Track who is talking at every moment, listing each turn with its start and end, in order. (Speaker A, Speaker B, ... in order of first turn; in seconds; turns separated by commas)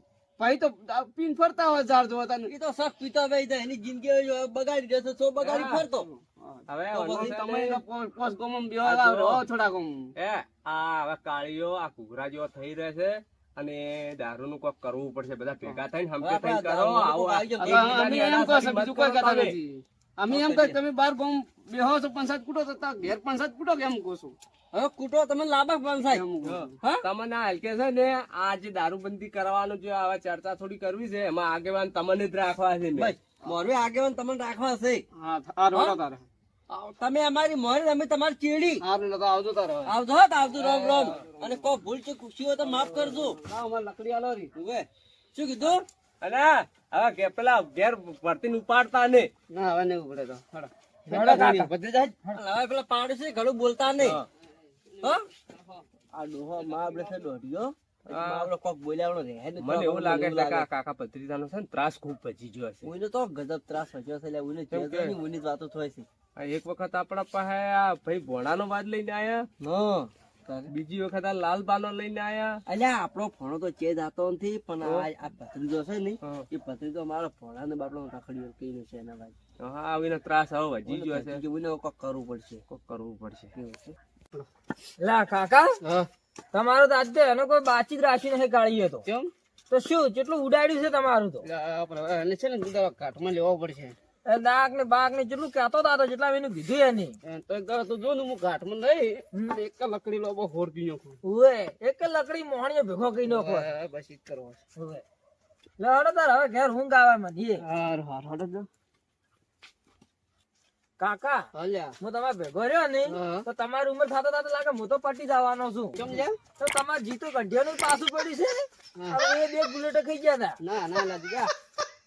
Speaker A: 0.4-2.5, Speaker B: 2.5-6.1, Speaker C: 5.4-5.9, Speaker A: 5.9-10.0, Speaker C: 6.7-7.8, Speaker B: 6.9-7.3, Speaker C: 8.8-9.4, Speaker C: 10.2-19.6, Speaker B: 16.2-18.2, Speaker A: 17.6-24.4, Speaker B: 20.3-20.8, Speaker B: 24.7-26.2, Speaker A: 26.1-26.8, Speaker C: 26.4-33.1, Speaker B: 33.0-35.0, Speaker A: 35.1-36.3, Speaker B: 35.7-36.0, Speaker B: 36.7-38.8, Speaker A: 38.8-39.9, Speaker B: 39.9-43.4, Speaker A: 40.5-41.7, Speaker A: 42.6-44.5, Speaker B: 44.5-45.9, Speaker C: 45.6-49.3, Speaker A: 49.5-52.0, Speaker D: 51.1-51.7, Speaker B: 51.1-54.2, Speaker C: 54.0-54.2, Speaker A: 54.9-55.8, Speaker B: 56.1-60.7, Speaker C: 58.1-58.5, Speaker C: 59.6-62.9, Speaker B: 62.8-66.1, Speaker C: 64.7-65.2, Speaker C: 66.4-69.5, Speaker B: 69.6-70.7, Speaker C: 70.7-72.6, Speaker B: 72.7-79.4, Speaker C: 74.8-75.1, Speaker C: 79.6-81.4, Speaker B: 80.9-82.6, Speaker C: 82.7-83.8, Speaker D: 85.0-85.7, Speaker D: 86.5-89.0, Speaker A: 89.0-89.3, Speaker D: 89.7-91.4, Speaker A: 91.5-94.0, Speaker D: 94.3-97.2, Speaker A: 97.2-101.2, Speaker D: 101.2-103.7, Speaker A: 103.3-104.6, Speaker D: 104.8-105.0, Speaker D: 105.8-107.6, Speaker A: 107.6-108.7, Speaker D: 111.0-111.4, Speaker A: 111.5-111.9, Speaker D: 112.0-116.0, Speaker A: 113.1-113.5, Speaker A: 116.0-116.4, Speaker D: 116.6-120.6, Speaker A: 120.6-121.5